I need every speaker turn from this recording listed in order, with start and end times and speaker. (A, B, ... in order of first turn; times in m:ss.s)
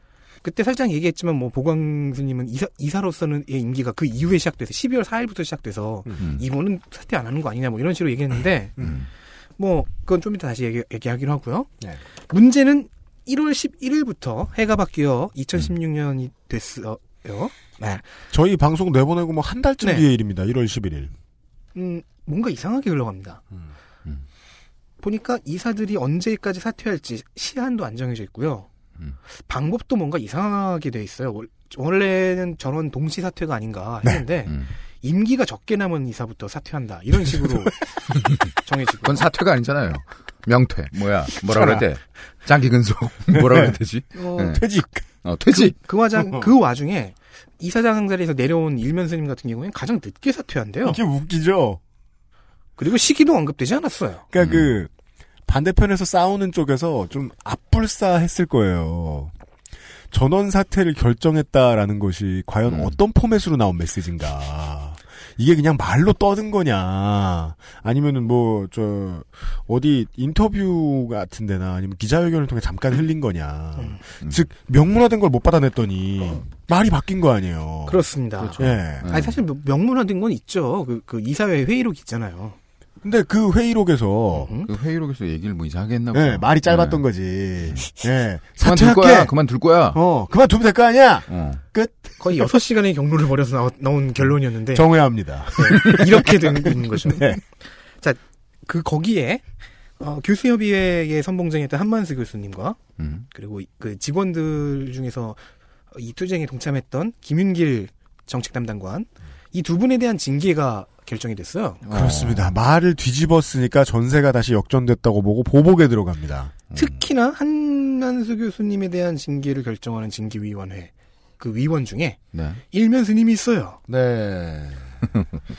0:00.4-0:08.7 A
0:06.2-0:06.4 B
0:08.8-0:09.0 C
0:08.8-0:09.1 B
0:09.6-0:11.7 A
0:12.3-0:18.0 A
0:18.3-0:21.1 C
0:19.8-0:20.0 A
0:21.7-0:23.4 A
0:25.0-0:28.7 A
0:29.5-0:37.7 A
0:37.3-0:37.7 C
0:38.6-0:39.2 A
0:39.0-0:44.6 B
0:41.4-0:41.8 C
0:43.3-0:43.8 C
0:44.2-0:44.6 A
0:44.3-0:45.1 C
0:45.2-0:45.8 B
0:45.5-0:51.0 A
0:50.8-0:51.8 C
0:52.8-0:54.2 A
0:54.3-0:54.9 C
0:54.4-0:54.7 B
0:55.5-0:59.3 C
1:00.1-1:18.0 C
1:17.9-1:22.6 A
1:18.4-1:19.4 B
1:18.6-1:19.1 C
1:23.0-1:24.5 C
1:24.4-1:24.7 A
1:24.6-1:27.0 B
1:26.1-1:29.3 C
1:28.6-1:30.0 B
1:29.9-1:32.4 C
1:31.3-1:31.6 B
1:32.2-1:34.9 A
1:34.7-1:36.5 C
1:35.6-1:37.4 A
1:37.0-1:37.4 C
1:38.0-1:39.4 A
1:40.0-1:42.8 A
1:43.0-1:43.3 B
1:43.3-1:45.4 A
1:45.9-1:51.8 A
1:51.8-1:52.6 B
1:51.9-1:56.5 C
1:56.7-2:02.2 A
2:02.3-2:02.6 B
2:02.7-2:03.8 A
2:03.9-2:04.8 C